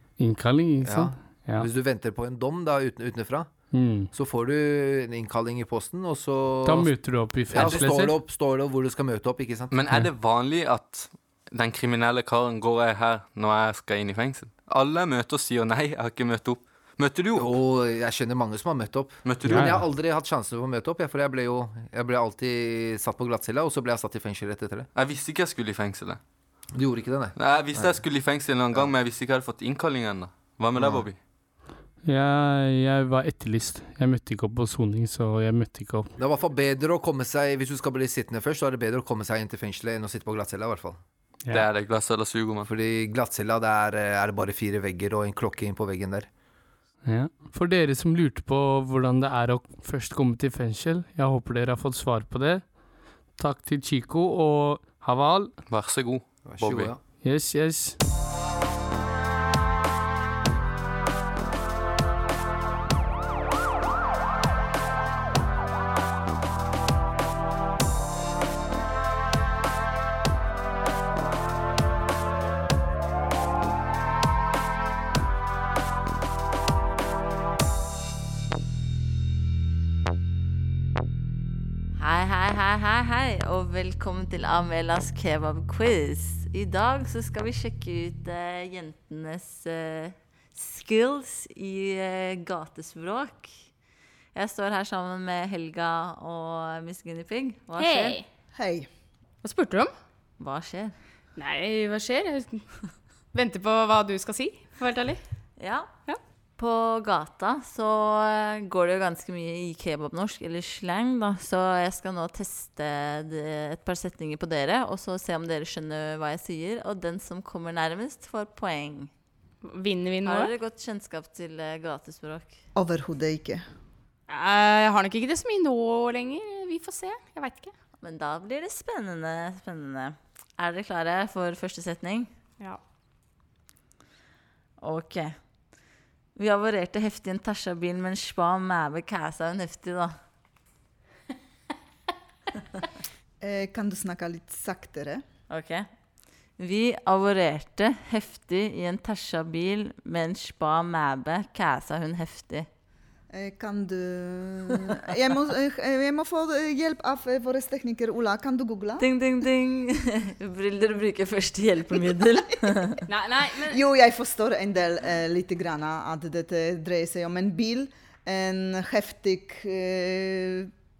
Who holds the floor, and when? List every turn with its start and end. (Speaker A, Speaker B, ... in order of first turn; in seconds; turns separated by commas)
Speaker A: 0.2-1.7, Speaker B: 0.8-3.5, Speaker A: 3.7-4.1, Speaker B: 4.1-6.9, Speaker A: 6.6-8.2, Speaker B: 7.5-9.8, Speaker C: 9.7-17.5, Speaker B: 17.3-24.9, Speaker C: 19.2-19.8, Speaker A: 19.5-19.8, Speaker C: 24.9-26.2, Speaker B: 26.7-28.0, Speaker C: 27.4-31.2, Speaker B: 30.7-31.1, Speaker A: 32.0-36.1, Speaker B: 36.2-41.0, Speaker C: 41.5-42.7, Speaker B: 42.6-46.3, Speaker A: 47.0-52.7, Speaker A: 53.4-55.5, Speaker C: 55.7-56.9, Speaker B: 56.5-57.0, Speaker A: 57.2-58.0, Speaker D: 81.9-93.5, Speaker D: 94.3-98.2, Speaker E: 97.8-98.2, Speaker F: 98.5-98.9, Speaker E: 99.4-99.9, Speaker D: 100.4-100.9, Speaker E: 101.4-102.6, Speaker E: 103.3-105.2, Speaker D: 105.6-105.9, Speaker D: 106.6-119.1, Speaker E: 119.7-120.5, Speaker D: 120.2-122.5, Speaker F: 122.7-123.6, Speaker E: 124.3-127.7, Speaker D: 128.0-132.3, Speaker D: 134.8-135.3, Speaker D: 136.4-140.1, Speaker F: 143.4-145.2, Speaker D: 145.5-145.9, Speaker D: 146.6-152.7, Speaker F: 153.3-159.1, Speaker D: 159.0-163.0, Speaker E: 163.1-163.8, Speaker F: 163.7-170.7